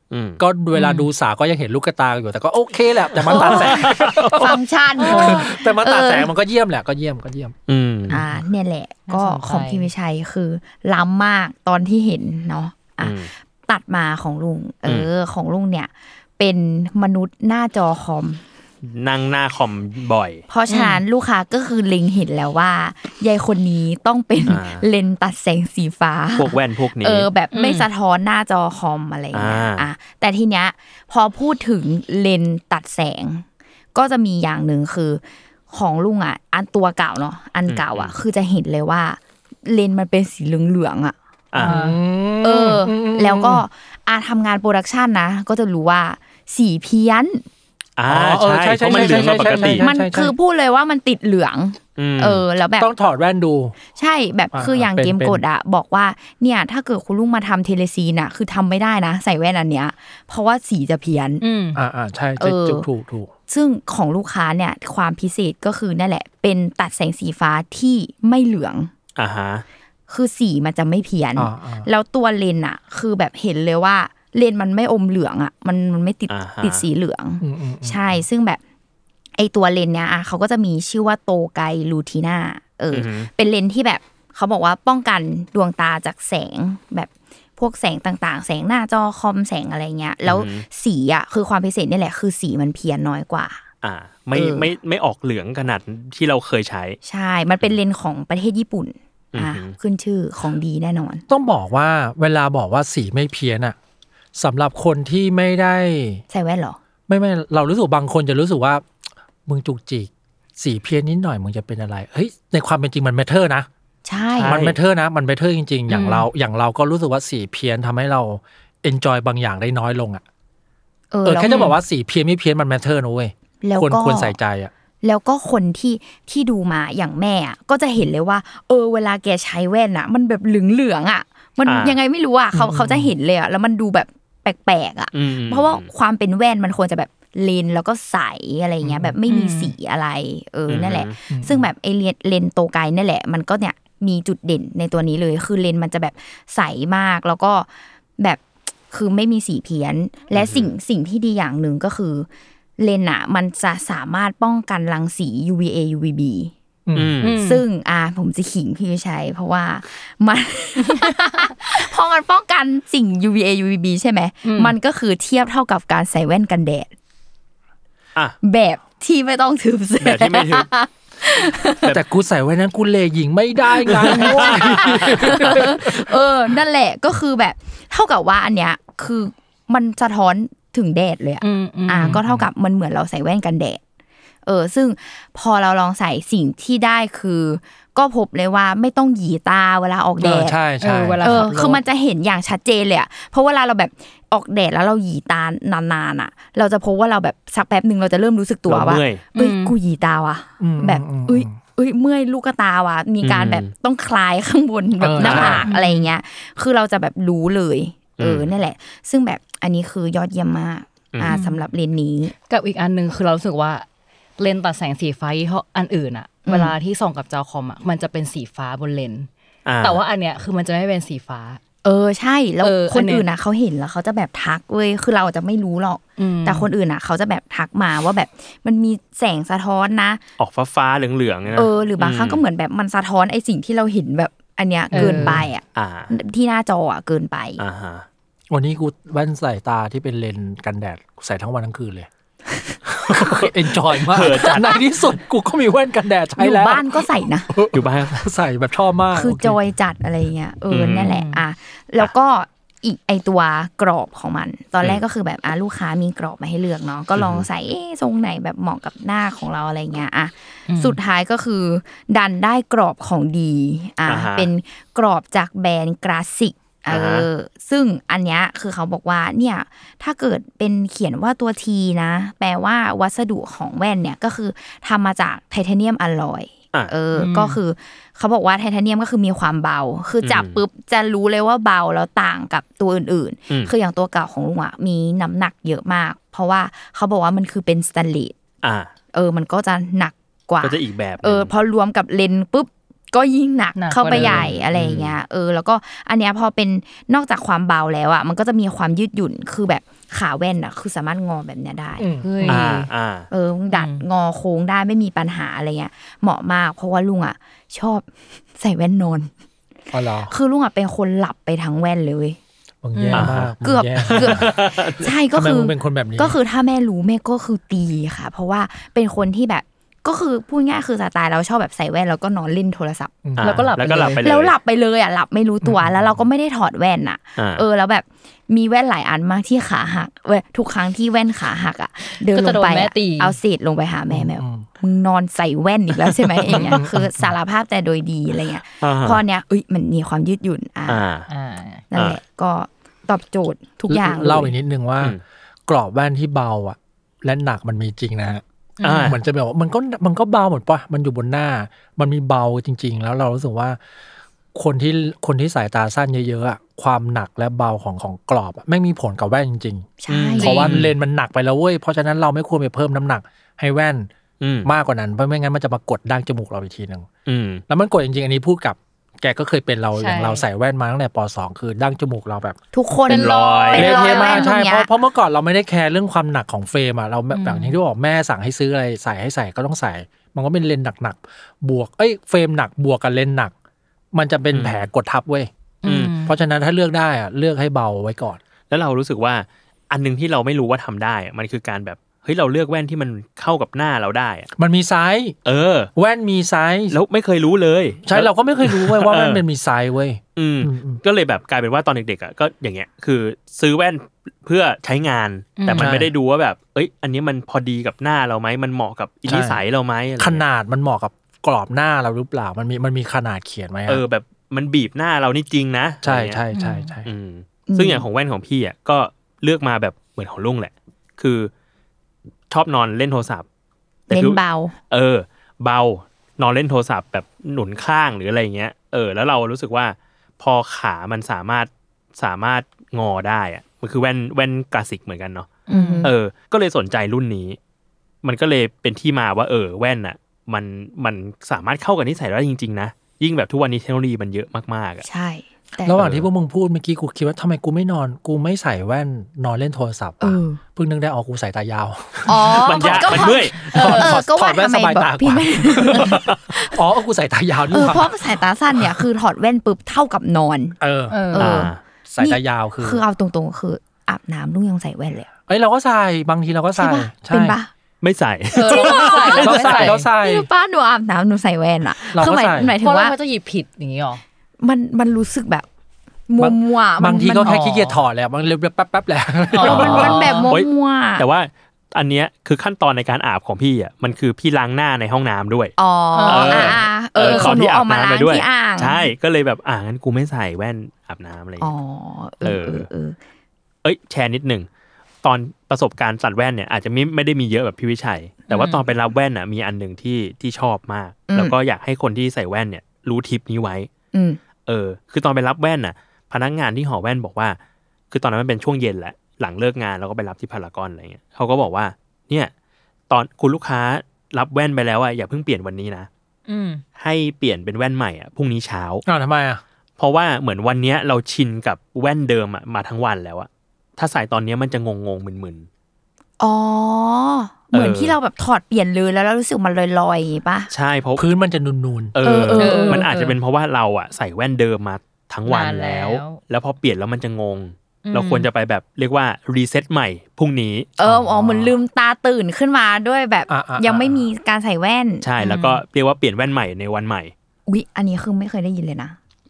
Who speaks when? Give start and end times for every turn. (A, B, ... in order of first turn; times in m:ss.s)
0:00.1-0:00.4 A
0:00.4-0:07.5 B
0:00.7-0:01.1 C
0:03.2-0:04.5 A
0:03.3-0:06.3 D
0:05.0-0:05.5 C
0:07.7-0:08.2 A
0:08.1-0:08.4 B
0:08.1-0:18.4 D
0:09.1-0:09.9 C
0:13.0-0:13.3 A
0:18.8-0:20.4 A
0:20.5-0:41.1 D
0:20.7-0:21.0 C
0:24.4-0:24.8 A
0:26.4-0:27.3 A
0:27.5-0:27.9 C
0:29.3-0:29.9 A
0:37.7-0:38.1 A
0:41.5-0:41.8 A
0:41.6-0:42.0 C
0:41.6-0:43.6 B
0:42.4-0:47.4 D
0:48.0-0:49.8 A
0:48.1-0:50.3 B
0:48.9-0:52.9 D
0:52.0-0:52.4 A
0:52.8-0:53.7 B
0:54.0-1:01.4 D
0:54.5-0:55.4 B
1:01.4-1:01.8 C
1:01.7-1:03.3 B
1:02.4-1:02.9 D
1:03.5-1:08.9 D
1:09.2-1:09.6 A
1:10.1-1:18.6 D
1:11.4-1:11.9 B
1:16.3-1:16.8 A
1:17.4-1:18.2 B
1:19.4-1:33.6 D
1:22.9-1:23.3 A
1:30.2-1:30.6 A
1:33.8-1:37.0 A
1:34.3-1:34.7 D
1:37.0-1:41.2 D
1:39.3-1:39.7 A
1:41.3-1:43.8 B
1:44.3-1:46.2 B
1:46.3-1:46.8 D
1:47.1-1:48.8 B
1:49.4-1:53.7 B
1:54.0-1:54.6 D
1:54.4-1:54.8 A
1:54.5-2:00.2 B
1:55.9-1:56.3 C
2:01.1-2:01.7 D
2:01.2-2:04.7 B
2:01.5-2:01.7 C
2:03.6-2:04.4 D
2:05.0-2:32.3 D
2:11.6-2:12.0 A
2:12.5-2:13.1 B
2:15.1-2:15.9 A
2:18.8-2:19.1 B
2:19.2-2:19.7 C
2:20.7-2:21.1 A
2:21.3-2:21.6 B
2:30.3-2:30.7 A
2:32.8-2:36.5 D
2:36.8-2:37.2 B
2:36.9-2:37.4 A
2:37.2-2:37.6 C
2:37.4-2:46.9 D
2:44.4-2:44.8 C
2:48.4-2:51.9 D
2:50.0-2:50.7 A
2:51.9-2:56.1 B
2:53.9-2:55.5 A
2:54.1-3:03.8 D
3:01.4-3:02.2 C
3:02.0-3:02.4 B
3:04.4-3:10.6 D
3:10.2-3:11.5 B
3:10.8-3:11.8 C
3:11.2-3:32.3 D
3:18.7-3:19.2 A
3:19.3-3:19.8 C
3:20.6-3:21.6 B
3:23.2-3:23.7 A
3:25.0-3:25.6 B
3:25.2-3:25.6 A
3:25.6-3:26.1 C
3:28.2-3:28.5 A
3:31.2-3:31.6 C
3:32.5-3:33.8 C
3:34.4-3:39.3 C
3:36.4-3:36.7 D
3:39.6-3:40.0 A
3:39.8-3:41.6 C
3:41.8-3:50.2 D
3:42.6-3:43.2 C
3:46.2-3:46.7 C
3:50.4-3:52.4 A
3:51.5-3:57.6 D
3:54.9-3:55.4 C
3:55.0-3:55.4 B
3:55.7-3:56.1 A
3:57.6-3:58.0 A
3:58.5-4:02.1 B
4:02.8-4:09.6 B
4:03.1-4:04.8 A
4:06.4-4:07.5 D
4:07.7-4:08.3 A
4:09.1-4:48.3 D
4:10.7-4:11.1 A
4:11.0-4:11.4 C
4:17.2-4:17.4 A
4:20.7-4:21.0 C
4:24.0-4:24.5 A
4:26.9-4:27.3 A
4:37.1-4:37.6 C
4:40.2-4:40.6 A
4:48.6-4:48.9 A
4:49.1-5:02.0 D
4:50.6-4:51.5 A
4:53.8-4:54.4 C
4:54.1-4:55.2 A
5:02.0-5:02.6 B
5:02.2-5:02.9 C
5:02.4-5:03.3 A
5:03.3-5:09.3 D
5:03.7-5:04.0 C
5:09.9-5:10.3 B
5:10.3-5:12.4 D
5:12.8-5:14.5 B
5:13.0-5:13.3 C
5:13.1-5:13.5 A
5:13.6-5:23.1 D
5:14.0-5:15.1 A
5:15.3-5:16.4 B
5:23.2-5:23.7 B
5:23.4-5:24.5 A
5:23.4-5:24.2 C
5:24.2-5:41.0 D
5:25.6-5:26.2 B
5:27.4-5:27.6 A
5:32.2-5:33.4 C
5:34.1-5:34.7 B
5:36.5-5:37.3 B
5:38.8-5:39.2 A
5:40.9-5:41.3 A
5:41.3-5:41.8 C
5:41.9-5:44.5 D
5:43.9-5:48.4 B
5:48.8-5:49.2 C
5:48.8-5:49.2 A
5:49.0-5:53.8 B
5:54.5-6:04.1 B
6:00.0-6:00.7 D
6:00.1-6:00.9 A
6:00.4-6:00.7 C
6:04.4-6:04.7 A
6:04.6-6:07.1 B
6:07.2-6:07.6 A
6:07.7-6:12.6 B
6:10.0-6:10.4 C
6:12.7-6:14.9 D
6:13.1-6:14.5 C
6:13.1-6:14.0 A
6:13.7-6:23.5 B
6:17.3-6:17.8 C
6:24.1-6:25.5 B
6:24.5-6:24.9 A
6:25.8-6:26.4 C
6:25.8-6:26.1 A
6:26.2-6:28.4 B
6:28.7-6:34.5 A
6:34.6-6:35.3 B
6:35.4-6:35.9 A
6:36.0-6:37.0 B
6:36.9-6:39.4 A
6:38.0-6:41.0 B
6:40.4-6:50.4 A
6:45.6-6:46.0 C
6:45.8-6:46.1 B
6:49.3-6:49.6 B
6:50.2-6:54.0 B
6:53.9-6:56.4 A
6:56.0-6:57.1 B
6:56.5-6:56.9 C
6:57.0-7:01.5 A
6:57.7-6:58.0 D
7:02.5-7:03.4 A
7:04.1-7:17.6 A
7:04.1-7:04.7 D
7:15.7-7:16.1 C
7:15.7-7:16.1 D
7:18.2-7:25.0 A
7:25.0-7:26.0 D
7:25.8-7:38.1 B
7:26.0-7:26.2 A
7:30.2-7:30.6 D
7:32.2-7:36.7 D
7:32.5-7:34.0 A
7:33.7-7:34.1 C
7:37.7-7:40.8 D
7:38.7-7:39.0 B
7:40.8-7:41.3 B
7:41.1-7:41.5 C
7:41.3-7:45.3 D
7:41.4-7:41.8 A
7:42.0-7:43.0 B
7:45.5-7:47.6 B
7:46.8-7:47.7 D
7:48.0-7:49.5 A
7:48.5-7:50.0 C
7:48.6-7:53.2 D
7:49.4-7:50.5 B
7:52.1-7:52.7 B
7:52.8-7:54.2 C
7:54.6-7:55.6 D
7:56.3-7:57.6 D
7:56.4-8:00.2 B
7:57.4-7:58.0 C
7:59.5-8:00.5 C
7:59.6-8:01.2 D
7:59.6-8:05.7 A
8:05.8-8:09.1 D
8:06.1-8:07.6 C
8:06.3-8:11.7 A
8:11.6-8:13.2 D
8:12.4-8:12.9 A
8:13.8-8:14.7 A
8:15.2-8:23.9 A
8:18.5-8:18.8 C
8:21.3-8:21.5 D
8:24.1-8:24.4 D
8:24.6-8:27.6 A
8:28.1-8:32.5 A
8:33.1-8:36.1 A
8:36.5-8:36.8 C
8:37.0-8:39.0 A
8:39.0-8:39.6 B
8:40.0-8:45.7 A
8:46.4-8:50.7 D
8:47.7-8:48.2 A
8:50.7-8:51.2 A
8:51.2-8:52.1 B
8:52.1-9:00.9 A
8:52.2-8:53.0 D
8:52.5-8:53.4 C
8:55.4-8:56.4 C
8:58.0-8:58.5 C
9:01.0-9:05.2 D
9:01.0-9:01.7 B
9:03.5-9:04.2 B
9:05.2-9:07.3 A
9:05.4-9:05.8 C
9:07.7-9:09.2 D